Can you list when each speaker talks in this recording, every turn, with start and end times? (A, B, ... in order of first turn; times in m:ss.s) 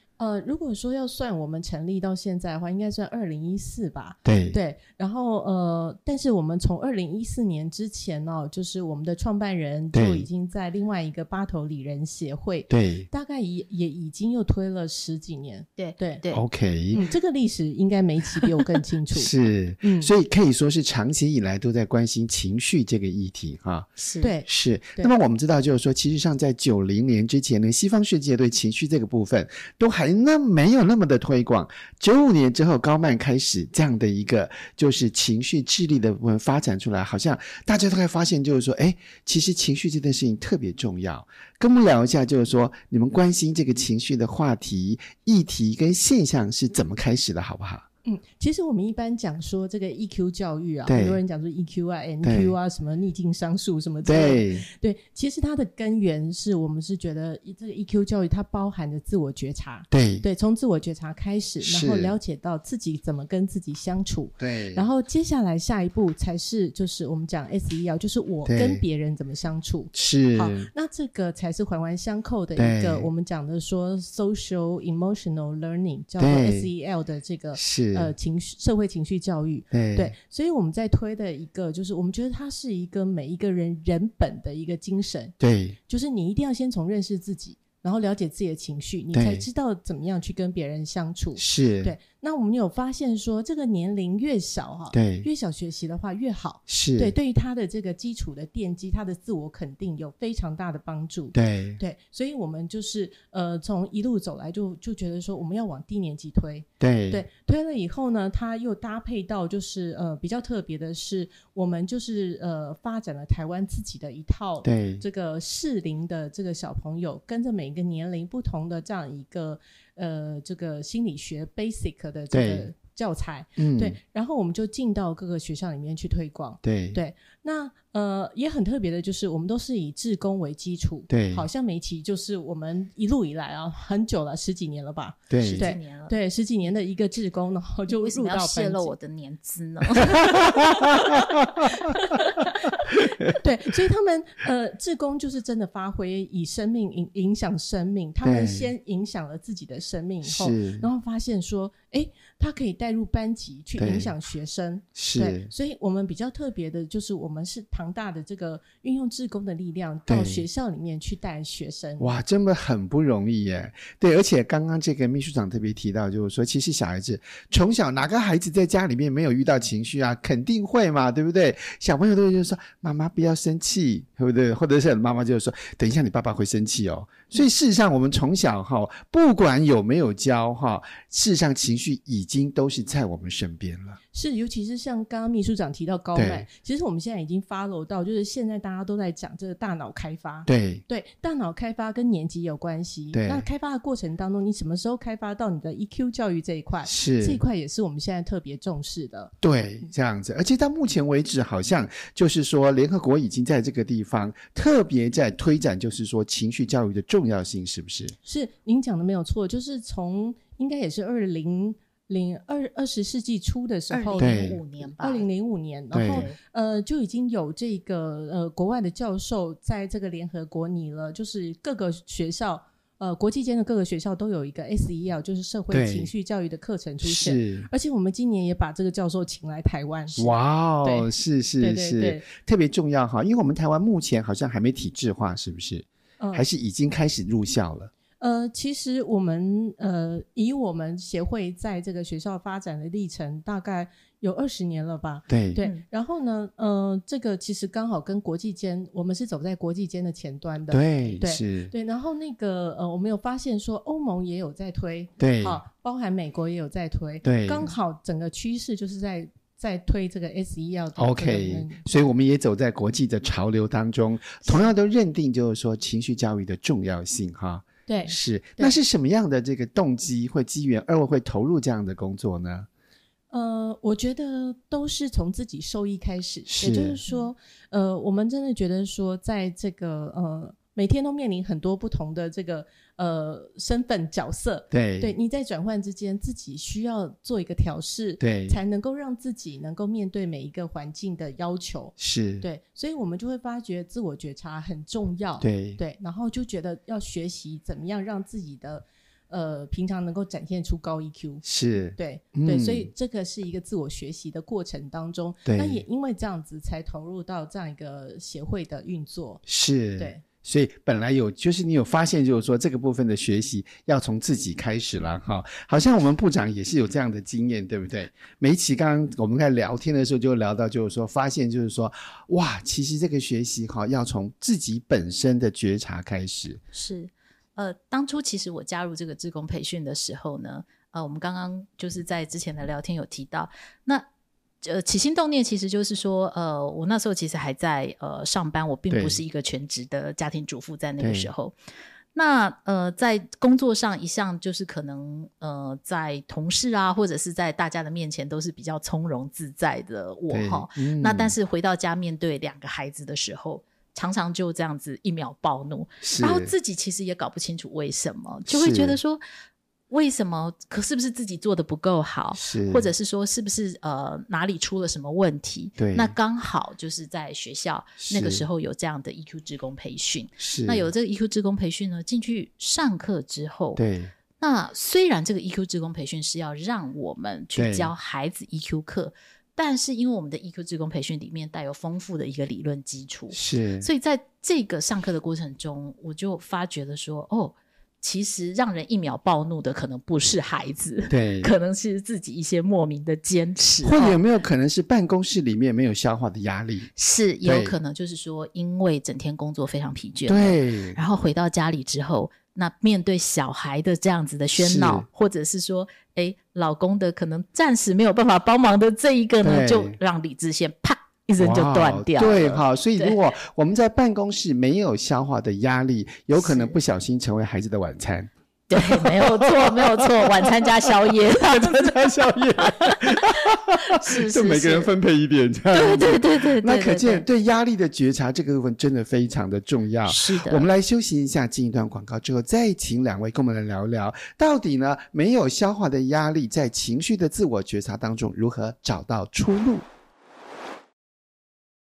0:00.2-0:16.2 A
0:04.2-0:04.6 B
0:09.9-0:10.3 B
0:12.7-0:13.1 B
0:15.8-0:16.4 C
0:16.3-0:17.1 B
0:16.9-0:20.1 A
0:19.1-0:23.9 B
0:24.0-0:24.3 C
0:24.2-0:25.1 A
0:24.4-0:47.8 B
0:48.0-1:25.3 A
0:50.8-0:51.2 B
0:52.2-0:52.5 B
0:54.0-0:54.6 B
0:59.9-1:00.2 B
1:01.6-1:02.2 B
1:04.4-1:04.9 B
1:08.4-1:08.8 B
1:09.9-1:10.7 B
1:12.6-1:13.1 B
1:16.2-1:16.7 B
1:17.5-1:18.1 B
1:19.7-1:20.1 B
1:25.4-1:25.8 B
1:25.9-2:18.9 A
1:29.1-1:29.5 B
1:31.4-1:31.9 B
1:34.9-1:35.3 B
1:36.7-1:37.1 B
1:41.3-1:41.8 B
1:46.8-1:47.2 B
1:54.6-1:55.0 B
2:02.3-2:02.7 B
2:03.6-2:04.0 B
2:06.6-2:07.0 B
2:11.1-2:11.5 B
2:15.3-2:15.7 B
2:15.4-2:16.1 C
2:17.9-2:20.5 C
2:20.1-2:23.4 B
2:20.6-2:42.1 A
2:28.2-2:28.7 B
2:30.2-2:30.9 B
2:33.8-2:34.1 B
2:35.0-2:35.5 B
2:40.1-2:40.4 B
2:42.0-3:04.0 B
3:04.1-3:19.3 A
3:06.1-3:06.4 B
3:10.5-3:10.8 B
3:13.1-3:13.4 B
3:16.8-3:17.4 B
3:19.4-3:28.1 B
3:28.2-3:50.3 A
3:33.9-3:35.2 C
3:34.2-3:34.6 B
3:35.9-3:36.3 B
3:36.1-3:36.4 C
3:45.7-3:46.1 B
3:47.0-3:47.7 B
3:50.2-3:57.9 B
3:50.8-3:52.3 A
3:56.2-3:56.4 A
3:58.2-4:21.8 A
4:05.3-4:05.6 B
4:10.7-4:11.7 B
4:15.2-4:15.6 B
4:17.2-4:17.7 B
4:21.0-4:32.7 B
4:24.4-4:24.7 A
4:27.9-4:28.8 A
4:33.3-5:01.4 A
4:36.5-4:37.0 B
4:44.7-4:45.1 B
4:48.2-4:48.6 B
4:52.0-4:52.4 B
4:55.4-4:55.8 B
5:01.4-5:02.9 B
5:01.9-5:09.4 A
5:05.5-5:05.8 B
5:09.5-5:26.6 B
5:10.0-5:10.2 A
5:26.7-5:34.1 C
5:34.6-5:41.5 C
5:38.9-5:39.2 B
5:41.0-5:41.3 B
5:42.1-5:59.2 C
5:50.3-5:51.3 B
5:56.0-5:56.5 B
5:58.5-5:59.0 B
5:59.9-6:13.8 C
6:02.3-6:02.9 B
6:05.8-6:06.1 B
6:08.0-6:08.4 B
6:10.4-6:10.9 B
6:13.8-6:14.1 B
6:14.4-6:34.2 C
6:17.6-6:17.9 B
6:23.3-6:23.9 B
6:31.1-6:31.5 B
6:33.8-6:36.9 B
6:37.0-6:53.2 C
6:37.4-6:37.7 B
6:40.2-6:41.0 B
6:44.6-6:45.1 B
6:49.4-6:50.0 B
6:51.4-7:19.8 B
6:56.3-6:56.8 C
6:58.7-7:02.0 C
7:02.6-7:04.9 C
7:05.7-7:07.2 C
7:10.0-7:10.7 C